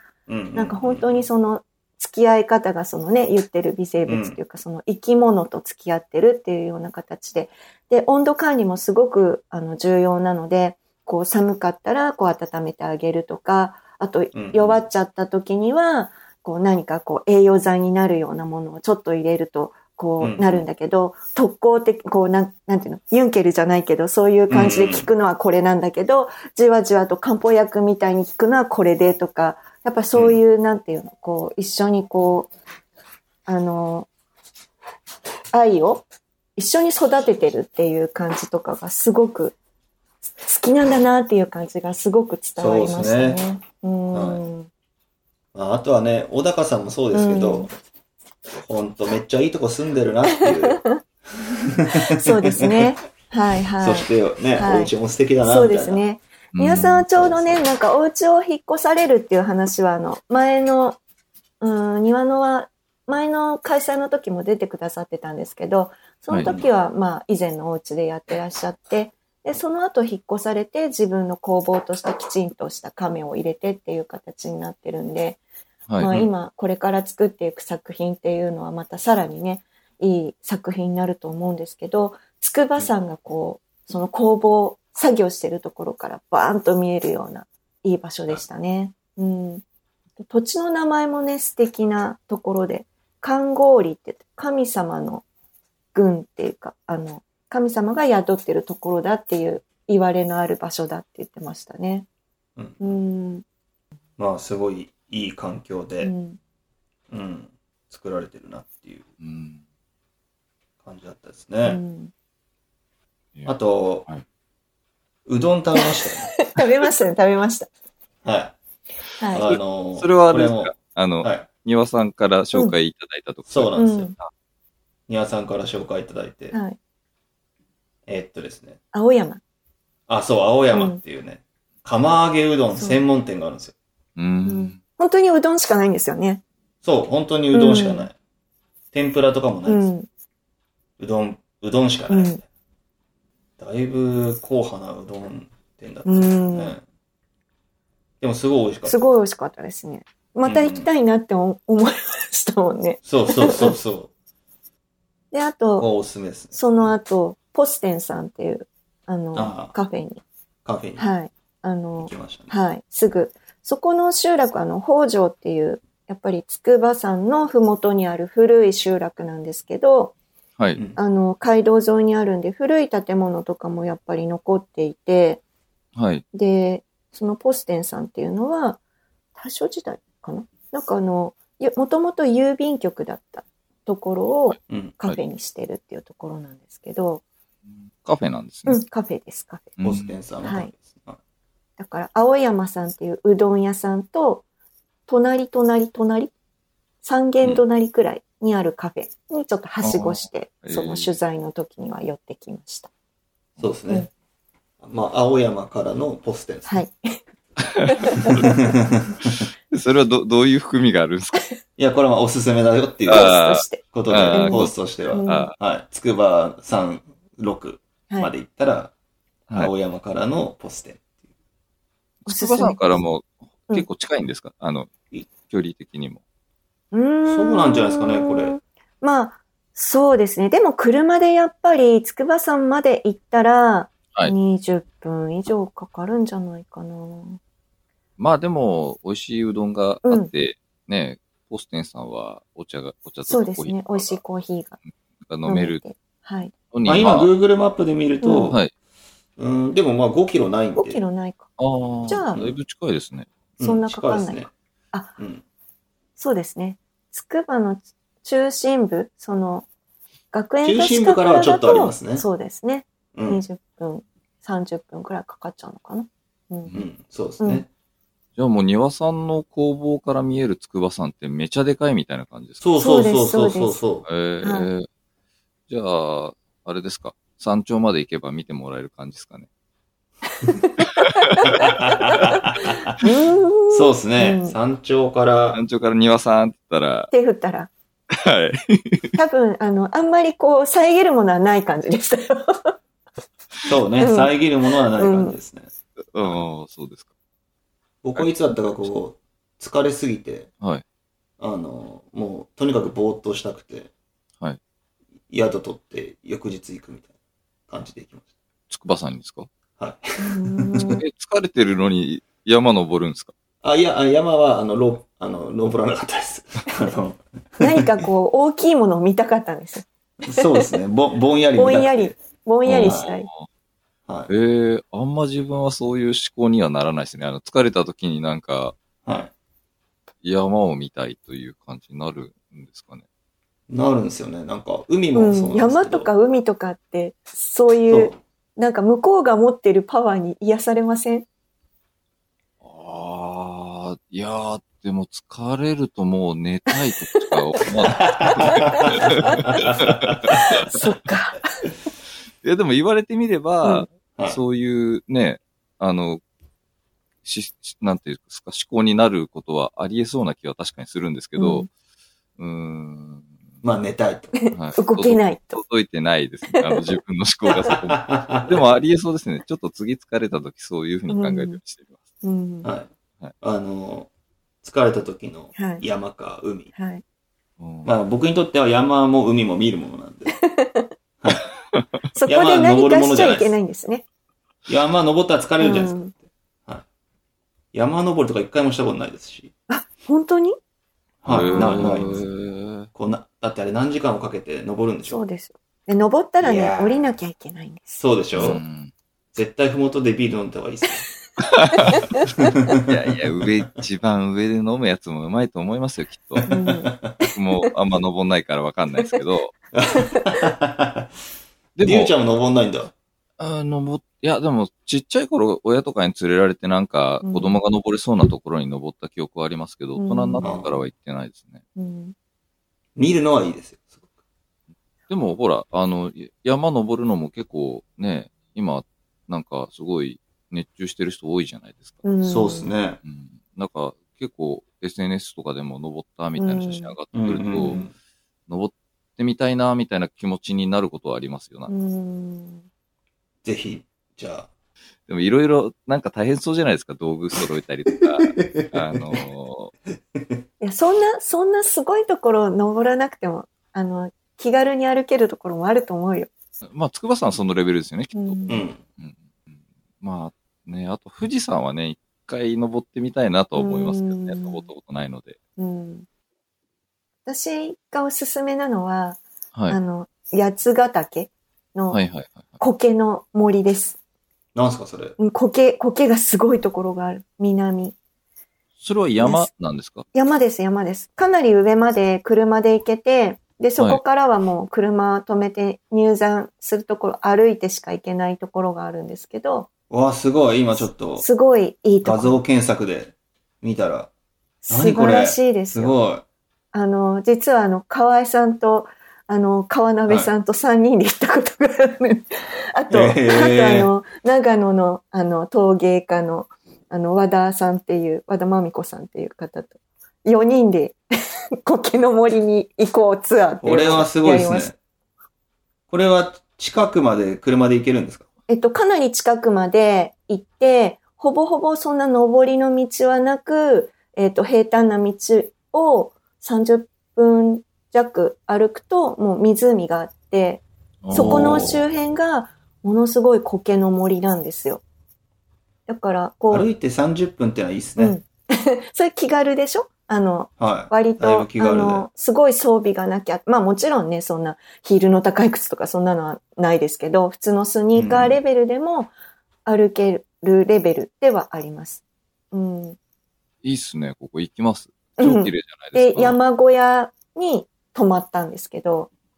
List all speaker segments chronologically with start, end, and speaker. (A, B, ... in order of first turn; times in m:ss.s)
0:00.3-0:01.2 A
0:00.5-0:32.5 B
0:04.0-0:04.4 A
0:14.3-0:14.8 A
0:20.2-0:20.6 A
0:24.5-0:25.1 A
0:33.4-0:34.1 B
0:35.5-0:39.5 B
0:40.4-0:44.7 B
0:42.6-0:43.4 A
0:44.1-0:44.4 A
0:45.5-0:47.7 A
0:47.1-0:47.7 B
0:48.6-0:50.9 A
0:50.4-0:50.9 B
0:51.6-0:52.9 A
0:51.9-1:01.0 B
0:53.8-0:56.0 A
0:56.5-0:57.1 C
0:57.1-0:57.6 A
1:01.6-1:15.4 B
1:06.4-1:06.7 A
1:15.9-1:16.2 C
1:16.0-1:29.6 B
1:30.2-1:35.2 B
1:35.9-1:42.1 B
1:42.6-1:42.9 A
1:42.8-1:43.4 B
1:44.2-1:46.1 A
1:46.0-1:46.4 B
1:47.1-1:49.1 A
1:49.2-1:49.6 C
1:50.8-1:51.8 A
1:51.6-1:52.1 B
1:53.4-1:54.2 C
1:53.5-1:54.1 A
1:55.2-1:56.3 A
1:55.8-1:57.7 B
1:58.2-1:58.6 A
1:59.2-1:59.5 B
1:59.3-2:01.5 A
1:59.4-2:04.3 C
2:03.5-2:04.1 A
2:03.7-2:04.1 B
2:05.1-2:06.6 A
2:08.1-2:08.8 A
2:08.9-2:09.4 B
2:10.1-2:13.7 A
2:10.7-2:11.0 B
2:12.7-2:13.0 B
2:14.2-2:14.8 C
2:14.4-2:16.4 B
2:16.8-2:18.1 A
2:17.5-2:18.1 B
2:18.9-2:19.9 A
2:19.6-2:20.1 B
2:21.0-2:22.4 A
2:22.1-2:22.4 B
2:23.6-2:26.8 A
2:26.0-2:26.8 B
2:28.2-2:29.0 A
2:28.8-2:33.7 B
2:30.4-2:30.9 A
2:33.0-2:34.1 A
2:35.3-2:35.9 B
2:35.8-2:36.9 A
2:36.5-2:40.2 B
2:39.3-2:39.7 A
2:40.6-2:41.1 A
2:41.0-2:50.1 B
2:42.0-2:42.5 A
2:51.0-2:55.4 B
2:56.0-2:56.2 C
2:56.3-2:58.8 B
2:59.4-3:07.2 B
3:04.5-3:05.2 C
3:04.7-3:04.9 A
3:08.0-3:08.8 C
3:08.7-3:09.8 B
3:09.8-3:10.2 C
3:09.8-3:11.2 A
3:10.4-3:10.7 B
3:11.8-3:14.4 B
3:15.1-3:16.3 B
3:17.0-3:22.9 B
3:19.8-3:21.1 C
3:23.6-3:24.1 A
3:24.8-3:26.8 A
3:26.7-3:27.2 B
3:27.7-3:28.5 C
3:27.9-3:28.5 B
3:28.4-3:29.2 A
3:29.2-3:31.4 C
3:31.8-3:38.9 A
3:33.0-3:35.6 C
3:33.1-3:33.8 B
3:34.3-3:35.5 B
3:39.5-3:41.1 A
3:42.2-3:46.2 C
3:42.3-3:43.0 B
3:46.9-3:57.4 B
3:47.2-3:48.5 A
3:58.2-4:04.2 C
4:03.2-4:04.8 B
4:05.2-4:05.8 C
4:05.4-4:06.5 B
4:06.7-4:07.3 C
4:06.8-4:08.6 A
4:08.2-4:08.6 B
4:09.4-4:11.0 A
4:10.8-4:11.5 B
4:11.6-4:13.3 C
4:12.1-4:12.4 B
4:13.6-4:14.5 A
4:13.6-4:15.2 B
4:15.2-4:15.4 A
4:16.2-4:19.7 B
4:20.3-4:26.7 B
4:20.6-4:22.2 A
4:23.1-4:23.4 A
4:26.7-4:27.7 A
4:28.4-4:32.6 C
4:32.6-4:34.0 A
4:32.8-4:33.8 B
4:34.0-4:34.9 C
4:34.4-4:34.7 B
4:35.7-4:39.5 C
4:40.8-4:41.6 C
4:41.5-4:43.0 A
4:43.0-4:44.6 B
4:43.7-4:45.6 A
4:45.5-4:47.1 C
4:47.1-4:47.7 B
4:48.1-4:49.1 C
4:49.2-4:52.7 B
4:53.7-4:55.7 A
4:54.0-4:54.4 B
4:54.9-4:55.4 B
4:56.0-4:57.1 C
4:58.0-5:00.5 A
4:58.2-4:58.9 C
5:01.4-5:03.9 A
5:05.3-5:07.1 A
5:07.7-5:08.3 A
5:08.7-5:09.5 C
5:09.8-5:11.0 A
5:10.2-5:11.0 B
5:11.0-5:13.3 C
5:13.6-5:18.0 A
5:17.6-5:20.5 B
5:20.2-5:22.1 A
5:21.6-5:23.3 B
5:22.6-5:23.5 C
5:22.8-5:23.1 A
5:24.3-5:28.8 C
5:29.0-5:29.3 A
5:30.2-5:33.0 C
5:33.7-5:36.1 A
5:35.1-5:41.2 B
5:37.9-5:38.2 A
5:42.6-5:50.7 C
5:47.9-5:50.4 A
5:48.5-5:49.4 B
5:50.6-5:51.6 B
5:52.4-5:56.2 C
5:57.2-6:01.7 C
6:01.4-6:01.7 B
6:02.4-6:03.3 C
6:03.6-6:04.4 A
6:04.3-6:05.6 B
6:04.5-6:12.0 C
6:06.5-6:07.0 B
6:07.7-6:08.6 A
6:11.1-6:11.6 B
6:12.2-6:12.7 B
6:12.6-6:12.9 A
6:13.4-6:14.1 A
6:14.6-6:16.7 A
6:15.6-6:15.8 B
6:16.7-6:17.0 B
6:17.6-6:17.9 C
6:17.8-6:20.4 A
6:20.3-6:20.9 B
6:22.1-6:24.0 B
6:22.2-6:23.6 A
6:24.7-6:26.8 A
6:25.6-6:26.1 B
6:27.7-6:29.5 A
6:29.7-6:30.6 B
6:31.2-6:32.2 A
6:31.3-6:32.9 C
6:31.5-6:32.0 B
6:32.9-6:35.2 A
6:35.1-6:38.6 B
6:36.4-6:37.1 A
6:38.0-6:38.6 A
6:38.3-6:38.9 C
6:39.3-6:41.1 A
6:41.4-6:42.0 C
6:42.3-6:43.0 A
6:42.9-6:46.4 C
6:46.4-6:47.1 A
6:46.5-6:47.7 B
6:47.3-6:49.5 C
6:49.7-6:51.1 A
6:51.8-6:52.1 C
6:51.8-6:52.9 A
6:53.4-7:01.6 C
6:57.2-6:57.6 B
7:00.0-7:00.4 B
7:00.4-7:00.7 A
7:01.8-7:02.1 B
7:03.0-7:04.1 A
7:05.1-7:12.0 C
7:12.0-7:12.7 B
7:12.2-7:13.0 A
7:13.0-7:17.8 C
7:16.4-7:17.0 B
7:17.1-7:17.9 A
7:18.5-7:21.7 C
7:21.7-7:22.6 B
7:23.4-7:24.5 A
7:25.1-7:29.7 C
7:28.1-7:29.2 A
7:30.1-7:30.4 A
7:30.6-7:36.3 B
7:36.6-7:38.4 C
7:38.1-7:38.6 B
7:38.5-7:38.8 A
7:39.0-7:45.4 C
7:43.5-7:44.7 B
7:45.6-7:46.0 B
7:47.2-7:52.0 B
7:49.5-7:49.8 C
7:51.9-7:52.6 C
7:52.6-7:54.0 B
7:54.5-7:55.2 A
7:55.2-7:57.9 B
7:58.8-8:00.0 C
7:59.2-7:59.5 B
8:00.1-8:09.7 B
8:09.9-8:11.2 A
8:11.2-8:12.4 B
8:12.0-8:14.1 A
8:14.6-8:15.9 B
8:14.7-8:16.2 A
8:16.7-8:31.0 B
8:22.9-8:23.9 A
8:31.6-8:34.7 B
8:33.6-8:34.7 A
8:35.9-8:38.2 A
8:38.5-8:54.8 B
8:51.0-8:51.8 C
8:51.2-8:51.6 A
8:55.9-8:56.7 B
8:56.5-8:58.2 A
8:58.0-9:09.1 B
9:00.6-9:02.1 A
9:07.9-9:08.4 A
9:09.6-9:13.0 B
9:13.6-9:16.4 C
9:15.2-9:19.1 B